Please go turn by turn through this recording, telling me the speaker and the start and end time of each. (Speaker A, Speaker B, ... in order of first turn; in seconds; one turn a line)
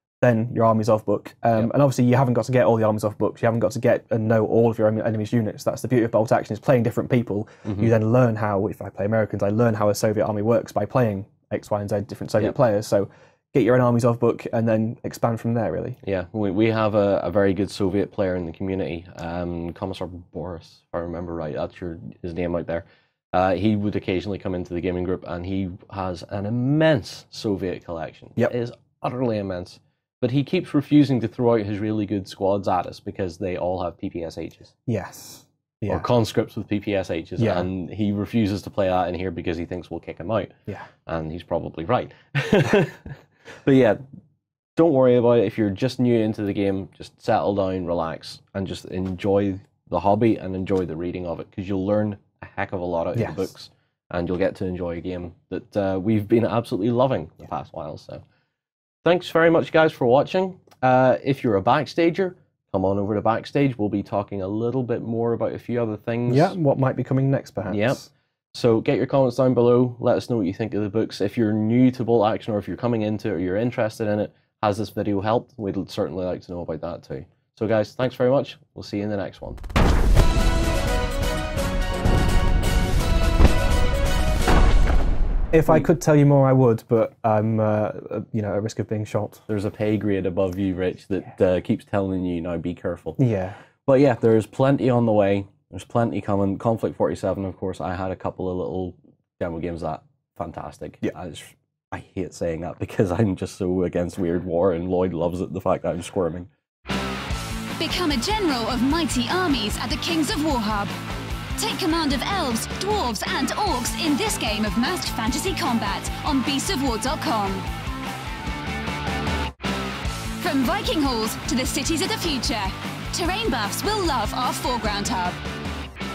Speaker A: 0.2-16.0
Speaker B: 7.7-7.9
Speaker B: 16.0-34.7
Speaker A: 34.9-36.1
Speaker B: 35.9-40.5
Speaker A: 37.4-37.7
Speaker B: 41.1-44.0
Speaker B: 44.8-58.2
Speaker A: 53.2-53.5
Speaker B: 59.0-66.6
Speaker A: 66.3-68.0
Speaker B: 67.7-79.6
Speaker A: 85.5-89.4
Speaker B: 89.5-93.2
Speaker A: 93.2-93.6
Speaker B: 93.9-106.5
Speaker C: 107.8-110.9
Speaker C: 111.6-117.7
Speaker C: 120.4-125.4